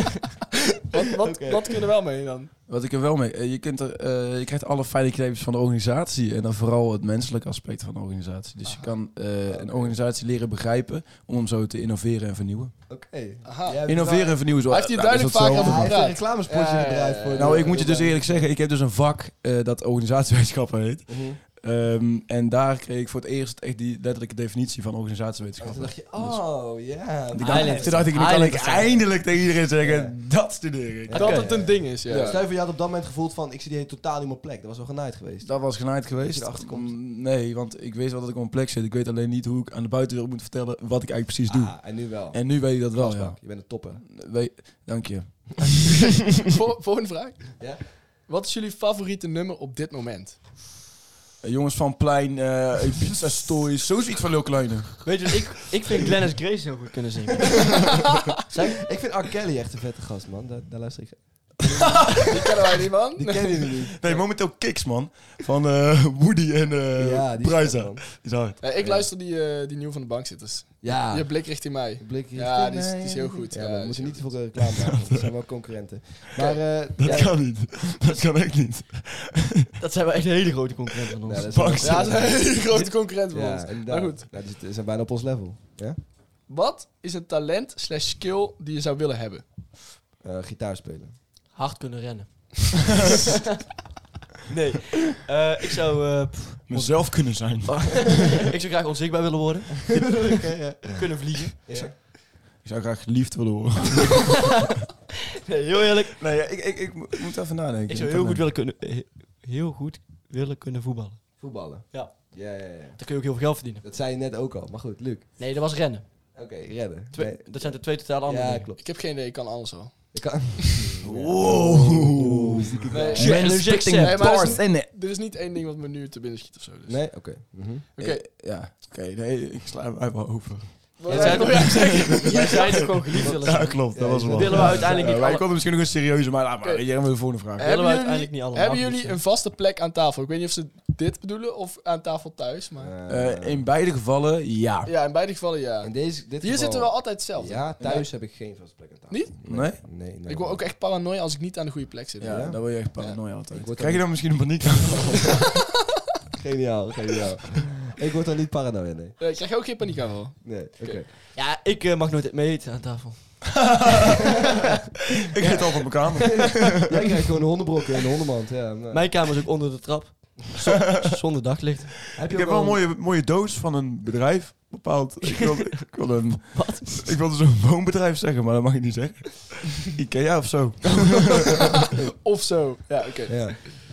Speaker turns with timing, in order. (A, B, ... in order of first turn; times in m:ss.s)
0:00.9-0:02.5 A
0:01.2-0:01.7 B
0:02.7-0:12.8 C
0:09.5-0:10.0 B
0:12.9-0:14.6 B
0:13.4-0:13.9 A
0:13.9-0:16.0 C
0:14.6-0:17.8 A
0:15.5-0:18.5 B
0:17.4-0:26.6 C
0:21.1-0:21.4 B
0:25.6-0:28.2 B
0:27.3-0:32.4 C
0:27.4-0:29.0 D
0:29.8-0:30.2 B
0:31.1-0:37.0 B
0:31.1-0:32.5 A
0:31.2-0:31.5 D
0:35.4-0:46.3 C
0:41.5-0:44.0 B
0:46.2-0:50.4 A
0:47.6-0:47.9 B
0:51.4-0:55.4 C
0:55.0-0:58.0 D
0:58.5-0:58.8 D
0:58.7-1:02.2 B
1:01.7-1:02.3 C
1:02.2-1:03.8 A
1:03.1-1:04.3 B
1:04.0-1:08.6 C
1:07.0-1:08.2 B
1:08.6-1:14.4 A
1:08.8-1:09.1 B
1:10.8-1:17.3 B
1:14.6-1:15.6 C
1:16.4-1:19.7 C
1:17.0-1:17.3 D
1:19.8-1:22.9 D
1:21.2-1:22.6 B
1:21.4-1:22.5 C
1:21.8-1:24.3 A
1:23.3-1:26.0 B
1:26.5-1:29.4 A
1:30.2-1:31.2 B
1:31.5-1:32.7 D
1:34.5-1:41.8 D
1:36.7-1:38.3 C
1:39.9-1:42.0 B
1:41.8-1:44.4 C
1:45.4-1:46.2 D
1:46.2-1:48.4 C
1:47.9-1:53.8 D
1:51.4-1:53.0 B
1:53.8-1:55.4 B
1:55.4-1:56.0 D
1:56.4-1:58.8 B
1:57.1-1:58.7 D
1:58.8-2:00.9 A
2:00.1-2:03.3 B
2:01.0-2:04.9 C
2:02.9-2:07.4 A
2:03.1-2:04.6 D
2:06.9-2:07.8 B
2:08.0-2:08.3 A
2:08.0-2:17.7 C
2:11.0-2:12.6 A
2:11.1-2:15.5 D
2:13.9-2:14.9 B
2:16.6-2:22.9 A
2:17.6-2:19.2 D
2:22.8-2:23.6 B
2:23.1-2:24.9 C
2:24.8-2:28.2 A
2:25.8-2:30.6 B
2:29.1-2:33.3 A
2:29.5-2:30.1 C
2:32.2-2:35.4 C
2:32.2-2:32.7 B
2:33.5-2:34.6 B
2:36.4-2:39.2 B
2:39.2-2:41.0 A
2:40.4-2:41.1 B
2:41.3-2:43.8 D
2:43.6-2:44.2 C
2:45.3-2:46.9 C
2:45.4-2:46.9 D
2:46.7-2:49.2 B
2:48.9-2:52.0 D
2:50.8-2:51.1 C
2:52.1-2:52.8 B
2:52.3-3:01.6 C
2:55.2-2:57.1 D
3:01.5-3:03.6 A
3:03.3-3:03.6 B